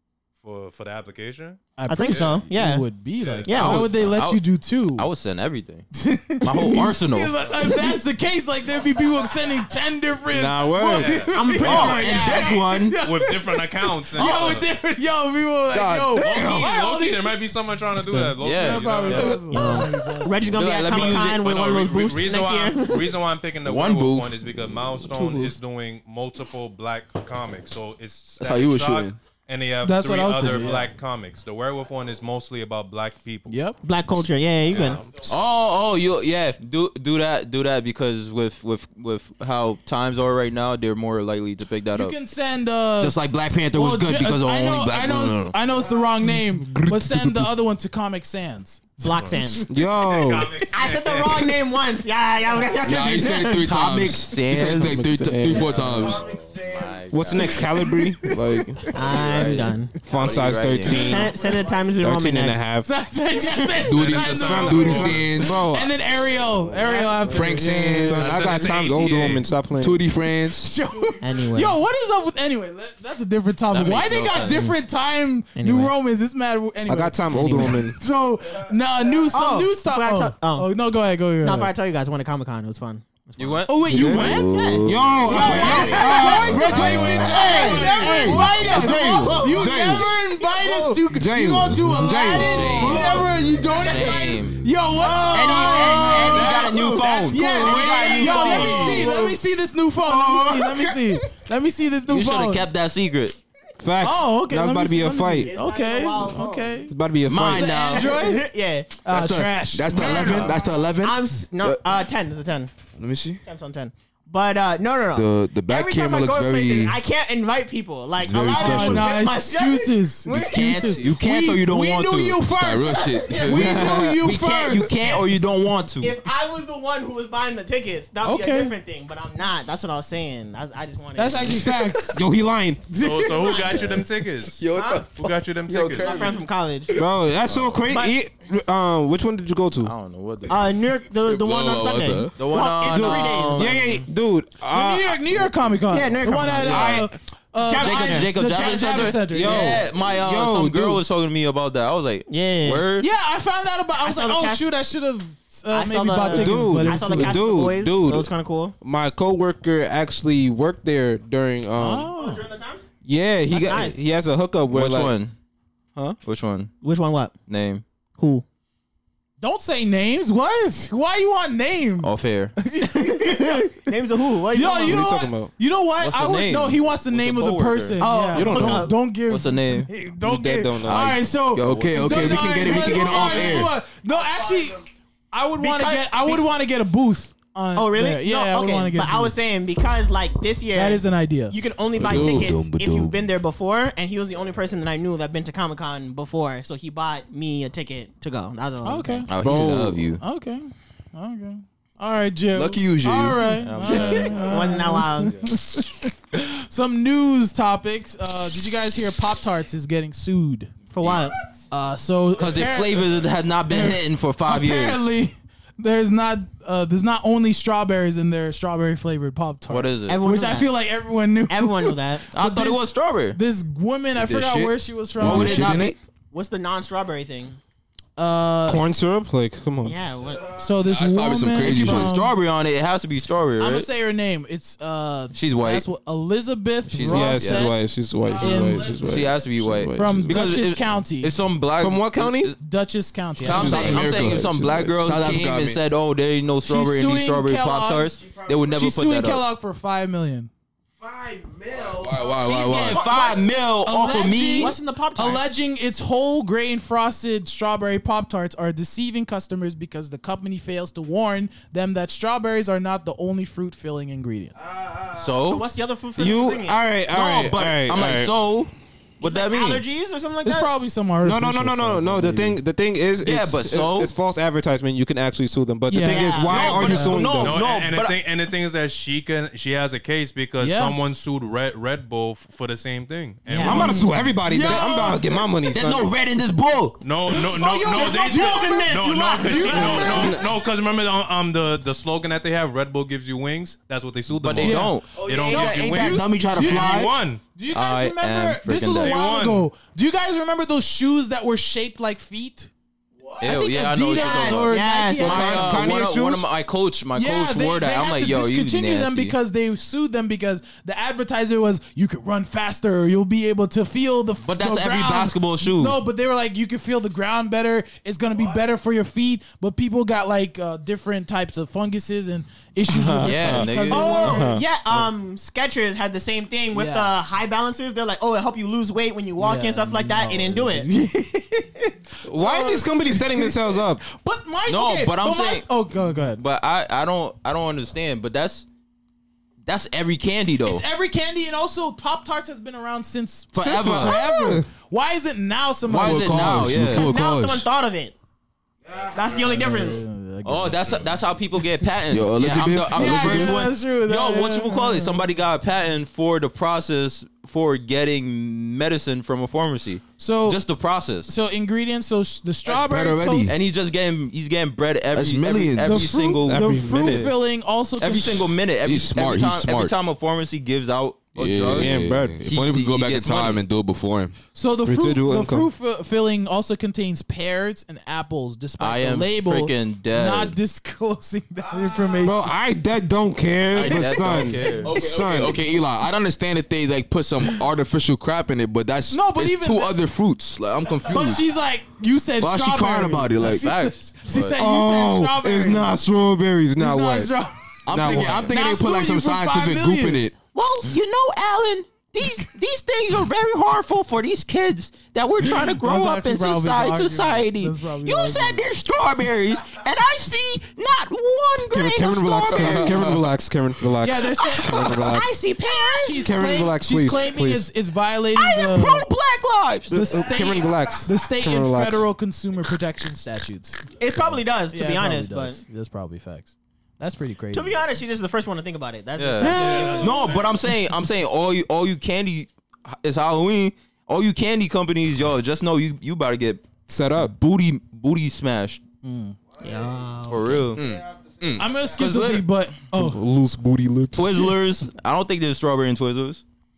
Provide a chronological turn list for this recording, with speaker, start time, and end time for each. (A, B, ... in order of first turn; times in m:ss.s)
0:00.4-0:02.4 A
0:01.8-0:05.1 B
0:01.9-0:02.9 C
0:03.2-0:03.9 A
0:03.4-0:03.9 C
0:03.5-0:05.9 D
0:05.9-0:17.4 B
0:06.4-0:07.3 D
0:10.3-0:11.2 E
0:10.8-0:11.4 A
0:11.3-0:12.6 C
0:11.6-0:13.0 D
0:13.0-0:14.7 A
0:14.2-0:14.5 D
0:15.7-0:16.6 F
0:16.1-0:19.5 A
0:18.0-0:20.5 B
0:18.4-0:19.3 D
0:19.5-0:23.1 C
0:20.5-0:21.7 D
0:20.9-0:33.5 A
0:23.6-0:24.4 D
0:25.2-0:25.5 F
0:28.4-0:29.2 F
0:29.8-0:30.9 B
0:33.5-0:33.8 B
0:33.8-0:35.0 C
0:34.7-0:35.1 A
0:35.2-0:42.2 D
0:41.9-0:43.2 B
0:43.0-0:45.6 D
0:43.7-0:49.6 B
0:46.3-0:47.4 E
0:49.0-0:49.6 C
0:49.1-0:51.6 A
0:49.7-0:50.6 E
0:50.7-0:53.5 C
0:52.8-0:57.7 D
0:52.8-0:56.2 F
0:54.5-0:56.1 E
0:55.8-0:57.4 G
0:57.1-0:58.9 E
0:57.6-0:58.3 B
0:58.9-0:59.9 C
0:59.0-1:01.3 D
1:00.0-1:01.3 E
1:00.8-1:02.6 C
1:01.5-1:01.8 G
1:02.0-1:02.9 E
1:02.8-1:08.3 B
1:03.8-1:05.7 F
1:03.9-1:05.2 A
1:04.1-1:05.9 E
1:06.8-1:07.1 C
1:07.2-1:08.4 F
1:07.3-1:10.0 E
1:08.2-1:09.5 A
1:09.8-1:10.7 F
1:10.6-1:21.7 B
1:11.2-1:11.8 C
1:13.7-1:14.7 D
1:15.6-1:15.9 C
1:16.9-1:18.0 E
1:17.4-1:17.8 C
1:19.3-1:20.7 C
1:21.4-1:23.7 C
1:23.4-1:24.8 D
1:23.7-1:42.7 B
1:24.0-1:29.5 F
1:24.3-1:30.1 C
1:24.8-1:30.1 E
1:25.4-1:26.0 D
1:31.1-1:33.1 E
1:32.3-1:34.6 D
1:35.0-1:39.3 C
1:35.2-1:37.1 F
1:35.3-1:39.1 D
1:42.1-1:43.4 D
1:43.8-1:45.5 E
1:44.0-1:46.9 B
1:45.4-1:46.8 C
1:46.9-1:47.7 E
1:47.2-1:48.2 D
1:47.5-1:48.5 B
1:47.9-1:49.0 C
1:49.0-1:50.5 B
1:49.0-1:51.8 F
1:49.9-1:52.7 C
1:53.0-1:53.4 F
1:53.4-2:00.0 C
1:55.1-1:57.0 F
1:58.2-1:59.1 F
1:58.5-2:05.1 B
2:00.2-2:02.5 D
2:00.3-2:01.0 E
2:02.5-2:03.9 F
2:03.4-2:06.2 D
2:03.7-2:04.1 E
2:06.0-2:11.8 C
2:08.2-2:08.7 B
2:11.2-2:12.2 B
2:12.1-2:12.9 E
2:12.9-2:13.6 B
2:12.9-2:16.3 A
2:13.3-2:14.0 C
2:14.4-2:16.4 F
2:14.7-2:15.1 C
2:15.8-2:17.0 C
2:16.9-2:17.8 F
2:17.0-2:19.9 E
2:17.9-2:18.2 C
2:19.8-2:20.7 D
2:20.5-2:24.0 C
2:21.2-2:22.4 F
2:22.4-2:23.8 D
2:22.9-2:25.4 E
2:24.7-2:29.8 B
2:25.9-2:27.1 C
2:26.6-2:27.1 D
2:27.6-2:28.3 C
2:27.8-2:33.1 D
2:29.3-2:31.0 E
2:32.3-2:32.8 C
2:33.0-2:37.4 B
2:34.0-2:34.8 C
2:35.7-2:38.7 C
2:36.3-2:38.3 E
2:38.8-2:42.1 E
2:41.8-2:42.4 B
2:42.2-2:42.8 C
2:43.0-2:45.2 E
2:43.5-2:44.0 C
2:44.7-2:45.3 D
2:46.2-2:46.7 D
2:46.8-2:47.3 C
2:47.5-2:47.8 D
2:48.2-2:48.4 C
2:49.4-2:53.7 B
2:52.0-2:52.5 D
2:52.9-2:55.2 C
2:54.5-3:04.8 B
2:54.8-2:55.5 E
2:56.0-2:58.0 D
2:58.0-2:58.9 C
2:58.3-2:58.9 E
2:59.3-2:59.9 D
3:00.2-3:01.2 E
3:00.8-3:03.0 D
3:01.5-3:03.7 F
3:04.1-3:04.7 G
3:05.3-3:09.3 B
3:05.6-3:06.5 C
3:07.7-3:19.3 C
3:10.7-3:11.6 B
3:12.0-3:13.2 F
3:12.0-3:12.4 E
3:18.8-3:19.3 B
3:19.3-3:20.2 D
3:19.4-3:20.0 E
3:20.2-3:30.7 B
3:22.5-3:23.6 F
3:23.6-3:24.7 D
3:23.8-3:25.4 C
3:30.9-3:31.4 C
3:31.0-3:31.3 D
3:31.7-3:45.8 B
3:32.3-3:35.1 D
3:39.7-3:40.2 D
3:40.1-3:40.7 C
3:41.5-3:42.2 C
3:42.3-3:43.4 D
3:44.1-3:46.0 F
3:45.2-3:46.0 D
3:46.3-3:47.6 C
3:48.2-3:48.8 B
3:48.6-3:50.0 E
3:49.8-3:50.4 C
3:50.6-3:52.4 B
3:50.8-3:52.1 F
3:51.6-3:53.9 D
3:53.6-3:57.8 B
3:55.3-3:55.8 D
3:56.9-3:57.7 D
3:57.0-4:00.4 E
3:58.2-3:59.6 G
3:58.4-3:58.9 B
3:59.0-4:02.6 D
3:59.9-4:01.3 B
4:01.8-4:02.5 E
4:02.6-4:03.9 B
4:03.4-4:09.4 D
4:03.4-4:05.0 E
4:03.5-4:05.8 F
4:06.6-4:10.5 B
4:08.2-4:08.8 G
4:11.0-4:12.6 G
4:11.9-4:13.1 F
4:12.3-4:14.7 D
4:12.8-4:13.5 C
4:13.8-4:24.5 B
4:14.4-4:15.4 C
4:24.6-4:25.4 G
4:25.2-4:25.6 D
4:25.4-4:26.8 C
4:26.2-4:28.3 E
4:27.1-4:29.8 D
4:29.2-4:30.7 C
4:30.4-4:32.6 B
4:31.2-4:37.6 E
4:33.2-4:34.1 D
4:35.9-4:37.2 B
4:36.0-4:36.7 C
4:36.4-4:38.2 D
4:36.7-4:44.1 A
4:40.6-4:41.0 B
4:43.5-4:43.9 C
4:43.6-4:45.2 B
4:43.6-4:46.1 E
4:44.6-4:45.1 C
4:44.6-4:44.9 D
4:45.6-4:47.0 D
4:47.0-4:57.4 A
4:47.3-4:50.4 B
4:47.4-4:50.3 C
4:54.4-4:55.3 D
4:54.6-5:02.7 B
4:55.1-4:56.0 G
4:55.4-4:57.2 F
4:57.7-4:59.2 D
4:59.0-4:59.7 A
5:03.2-5:03.6 G
5:03.4-5:09.3 D
5:03.4-5:05.9 B
5:04.2-5:05.8 C
5:05.2-5:06.5 E
5:07.1-5:24.5 B
5:14.4-5:16.0 D
5:22.9-5:24.6 E
5:23.2-5:25.0 D
5:23.9-5:30.9 C
5:26.7-5:27.1 B
5:29.4-5:36.4 B
5:32.2-5:34.0 E
5:34.6-5:38.6 D
5:39.6-5:40.8 D
5:40.6-5:46.7 B
5:43.5-5:44.2 D
5:43.6-5:44.6 E
5:45.9-5:47.1 D
5:46.0-5:47.7 F
5:46.8-5:48.1 C
5:48.8-5:49.8 G
5:49.1-5:50.0 C
5:49.5-5:51.2 B
5:50.4-6:01.3 D
5:52.1-5:53.6 F
5:52.9-5:55.3 B
6:00.2-6:00.6 B
6:01.2-6:03.6 B
6:02.7-6:03.6 F
6:03.5-6:07.2 D
6:05.1-6:06.1 F
6:05.8-6:08.6 B
6:06.3-6:07.3 E
6:08.0-6:13.6 D
6:08.8-6:09.9 F
6:11.3-6:14.3 F
6:11.7-6:12.4 E
6:14.5-6:22.5 B
6:14.8-6:15.7 E
6:18.8-6:20.6 D
6:21.7-6:22.1 G
6:22.2-6:25.6 E
6:23.7-6:24.9 D
6:24.1-6:24.8 B
6:24.8-6:31.4 F
6:29.1-6:30.0 B
6:31.0-6:35.9 B
6:32.4-6:33.7 F
6:33.4-6:34.6 D
6:34.6-6:37.3 E
6:36.8-6:40.2 B
6:37.8-6:40.4 F
6:37.9-6:38.5 E
6:40.5-6:53.1 D
6:45.4-6:48.6 B
6:51.7-6:55.4 E
6:52.5-6:53.2 F
6:54.0-6:54.9 B
6:54.6-6:55.1 D
6:55.0-6:56.2 C
6:56.0-6:59.1 B
6:56.2-6:57.7 E
6:58.3-7:00.2 D
6:59.9-7:07.8 B
6:59.9-7:02.1 E
7:00.4-7:00.9 G
7:04.0-7:05.6 C
7:07.5-7:10.2 C
7:09.2-7:18.8 D
7:09.4-7:10.1 B
7:09.5-7:10.6 A
7:16.9-7:17.3 E
7:19.0-7:19.4 B
7:19.6-7:20.0 G
7:19.6-7:20.7 C
7:20.3-7:20.8 D
7:20.8-7:21.5 F
7:20.8-7:22.2 G
7:21.6-7:23.2 B
7:21.8-7:22.4 D
7:22.9-7:24.5 E
7:24.1-7:26.4 D